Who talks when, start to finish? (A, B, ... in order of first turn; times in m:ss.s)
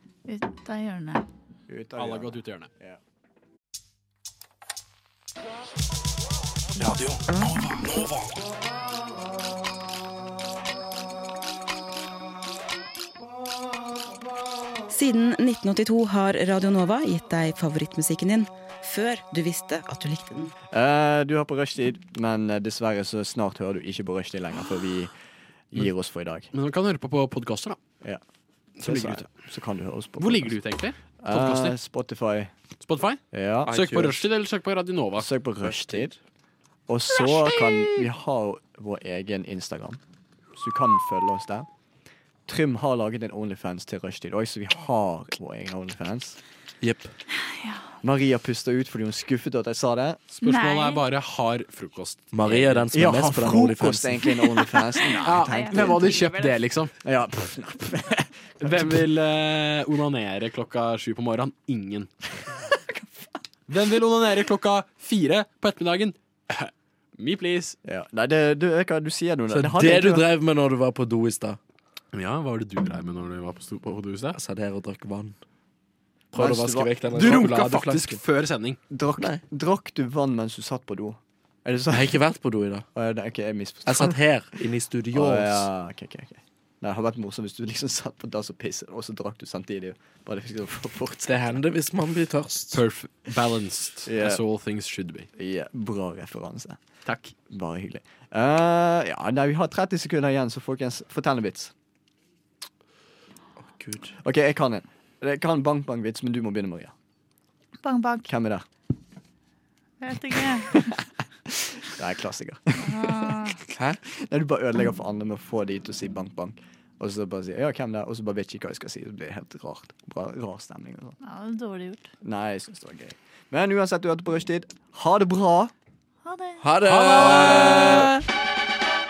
0:00.2-0:01.2 A
0:01.7-0:03.0 B
0:02.0-0:02.7 C
0:07.3-0:07.8 D
0:14.9-0:20.5 D
0:20.7-0:25.1 B
0:25.7-0:26.5 B
0:26.5-0:27.8 C
0:28.8-0:30.6 B
0:28.8-0:29.3 C
0:30.2-0:31.7 C
0:31.2-0:32.5 B
0:32.8-0:35.3 C
0:33.3-0:33.8 B
0:33.6-0:34.2 E
0:35.2-0:36.2 B
0:36.9-0:40.0 B
0:37.2-0:38.0 A
0:40.6-0:41.7 B
0:42.5-0:46.4 B
0:46.8-0:47.1 E
0:47.4-0:47.8 A
0:48.0-0:50.2 B
0:50.3-0:52.9 C
0:50.4-0:51.0 A
0:52.3-0:54.4 E
0:52.9-0:56.2 B
0:55.0-0:56.6 A
0:55.2-0:56.9 C
0:57.0-0:59.1 B
0:58.6-1:02.1 C
1:03.7-1:07.8 C
1:07.8-1:10.2 B
1:09.5-1:11.6 E
1:12.1-1:14.4 C
1:14.3-1:15.4 E
1:16.3-1:18.2 E
1:16.3-1:17.4 B
1:17.1-1:18.8 C
1:18.9-1:22.2 B
1:21.9-1:22.8 E
1:22.9-1:24.2 B
1:23.8-1:25.7 E
1:25.1-1:31.6 B
1:31.2-1:32.8 E
1:32.7-1:35.3 C
1:34.0-1:34.4 B
1:35.4-1:36.8 B
1:37.0-1:37.3 C
1:37.5-1:41.7 B
1:43.6-1:44.1 E
1:44.2-1:46.9 B
1:47.8-1:48.3 A
1:48.3-1:48.6 B
1:50.0-1:51.0 A
1:50.7-1:53.3 B
1:52.8-1:53.6 A
1:53.7-1:54.0 E
1:54.0-2:01.2 B
2:01.2-2:02.1 A
2:02.2-2:05.7 B
2:06.2-2:06.6 A
2:06.6-2:08.1 E
2:06.8-2:08.2 C